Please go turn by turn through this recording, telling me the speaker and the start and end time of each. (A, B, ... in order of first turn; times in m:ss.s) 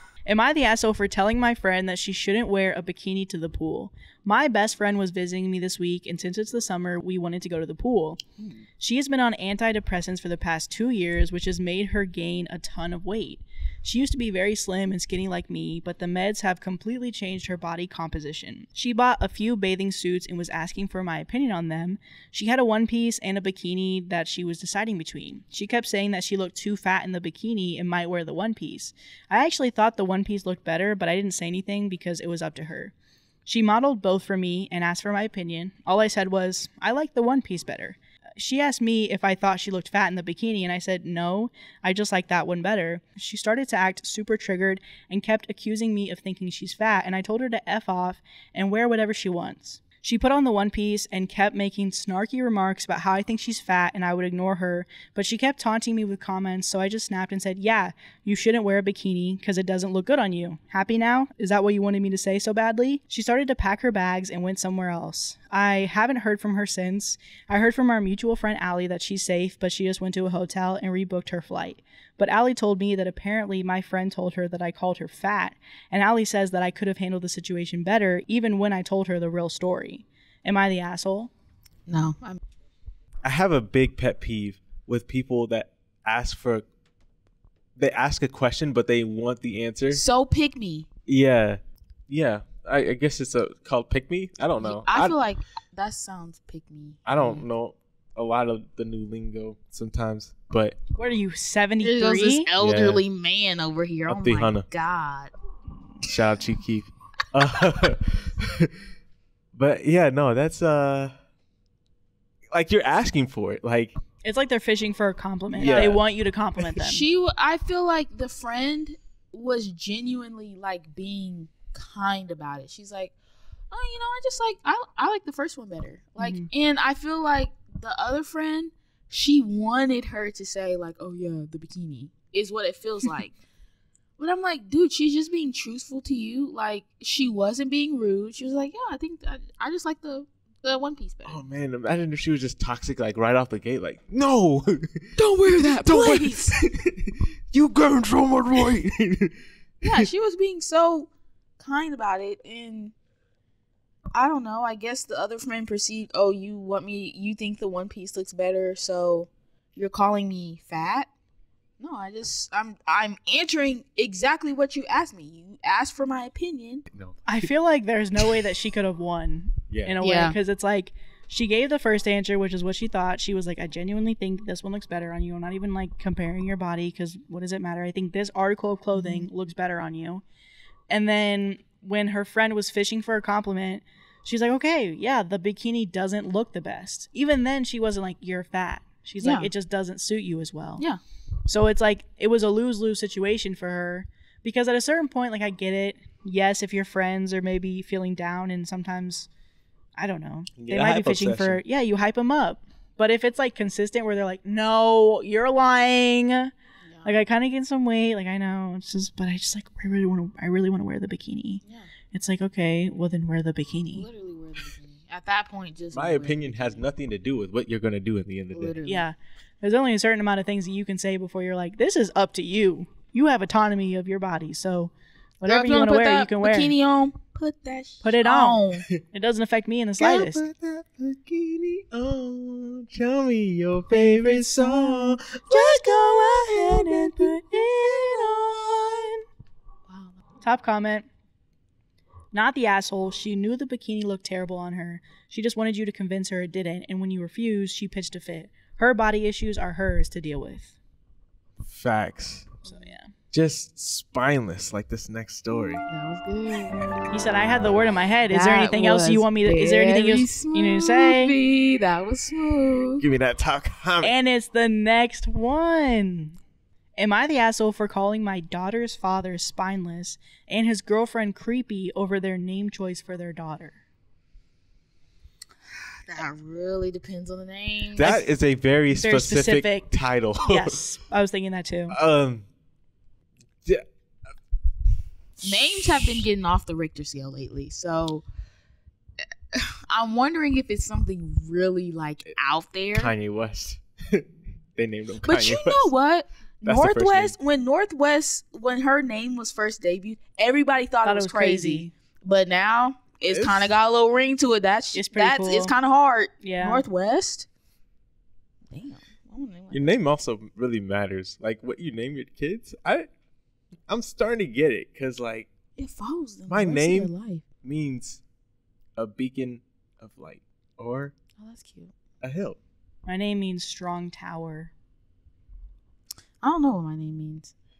0:00.3-0:08.2 A
0:08.8-0:32.9 A
0:33.4-1:21.3 A
1:21.9-1:22.4 B
1:23.2-1:26.6 C
1:27.8-1:30.0 C
1:29.9-1:30.9 B
1:31.1-1:35.2 C
1:34.6-1:37.4 B
1:37.0-1:40.8 C
1:40.9-1:42.5 A
1:41.8-1:45.3 B
1:42.6-1:43.0 C
1:44.1-1:44.6 C
1:46.0-1:48.7 C
1:49.5-1:51.1 C
1:52.5-1:53.9 C
1:54.2-1:57.0 A
1:55.6-1:55.9 B
1:55.6-1:56.0 C
1:56.8-2:03.1 B
2:03.7-2:13.3 B
2:06.2-2:06.5 A
2:14.2-2:21.4 B
2:21.2-2:30.1 C
2:25.2-2:26.6 B
2:29.8-2:32.9 B
2:34.1-2:41.1 B
2:41.8-2:46.8 B
2:46.9-2:47.2 C
2:47.3-3:00.2 A
2:49.7-2:50.0 C
2:50.0-2:50.4 B
2:58.9-2:59.3 B
3:00.9-3:10.8 A
3:09.2-3:09.5 B
3:11.5-3:19.3 A
3:20.0-3:26.5 A
3:20.6-3:21.6 C
3:27.0-3:31.6 A
3:32.1-3:34.1 A
3:33.9-3:36.8 B
3:35.9-3:38.8 C
3:38.5-3:39.0 B
3:38.8-3:46.7 A
3:45.4-3:48.9 B
3:48.0-3:50.4 A
3:50.0-3:59.1 C
3:53.9-3:56.4 B
3:55.5-3:59.1 A
3:59.9-4:00.2 B
4:00.4-4:01.0 A
4:02.3-4:10.7 A
4:11.7-4:12.6 C
4:12.6-4:12.9 B
4:12.7-4:13.1 A
4:13.3-4:15.8 C
4:15.9-4:16.9 B
4:17.1-4:21.4 A
4:18.3-4:23.0 B
4:23.0-4:24.1 C
4:24.0-4:26.4 A
4:27.0-4:33.8 A
4:36.1-4:38.2 B
4:38.0-4:40.8 C
4:38.9-4:42.0 A
4:41.9-4:42.5 C
4:45.4-4:48.2 B
4:45.4-4:46.1 C
4:49.5-4:53.1 B
4:52.9-4:55.9 C
4:55.2-5:07.5 B
4:56.6-4:57.3 C
5:01.0-5:01.9 A
5:03.3-5:03.7 C
5:04.9-5:05.7 A
5:06.4-5:06.8 A
5:08.7-5:10.0 B
5:09.7-5:13.1 C
5:13.9-5:15.5 C
5:15.8-5:17.4 B
5:16.5-5:17.1 C
5:17.6-5:18.2 C
5:19.0-5:21.1 C
5:21.4-5:21.9 B
5:22.2-5:22.6 C
5:23.0-5:24.7 A
5:26.4-5:27.5 B